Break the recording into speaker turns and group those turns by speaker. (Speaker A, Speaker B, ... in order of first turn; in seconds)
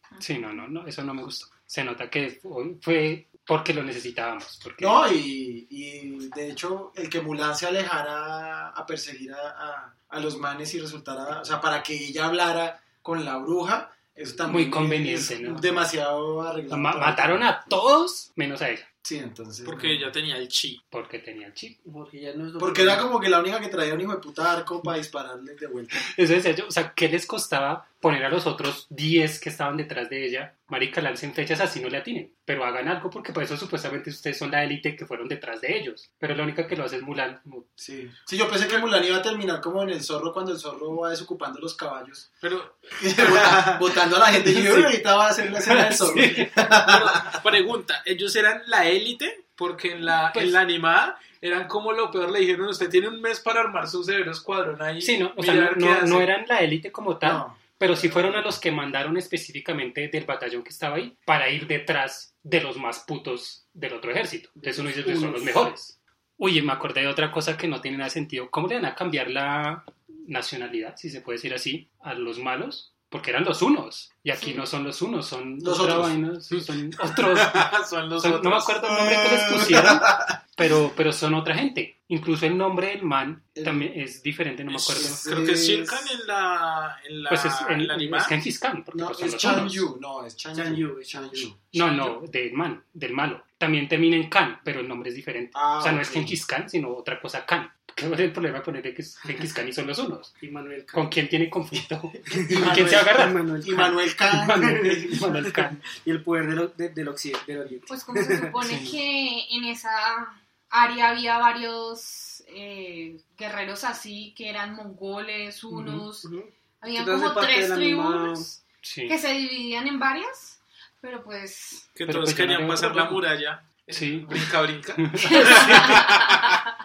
Speaker A: 0.2-5.1, 14.4-15.9, 16.7-18.9, 20.9-21.8, 26.0-37.7, 45.7-46.5, 55.0-85.2, 87.3-89.8, 91.7-100.3, 100.9-103.4, 104.3-105.8, 108.6-109.0, 115.7-116.1, 118.8-119.2, 122.0-123.3, 123.9-124.4, 125.0-126.2
Speaker B: 4.8-17.4, 19.0-20.1, 22.6-26.0, 37.8-42.3, 43.0-47.4, 57.2-58.5, 75.6-76.2, 78.9-80.4, 83.5-83.9, 84.9-86.2, 88.9-91.6, 95.5-96.4, 102.3-105.3
Speaker C: 19.6-20.8, 42.4-43.7, 46.6-56.3, 77.2-78.8, 84.7-88.3, 91.7-92.1, 121.9-126.5
Speaker D: 21.8-23.1, 64.6-65.7, 90.5-91.5, 100.4-101.1, 102.3-104.0, 104.5-105.2, 105.9-108.5, 116.2-118.5
Speaker E: 107.9-116.3, 116.8-121.9, 125.4-126.5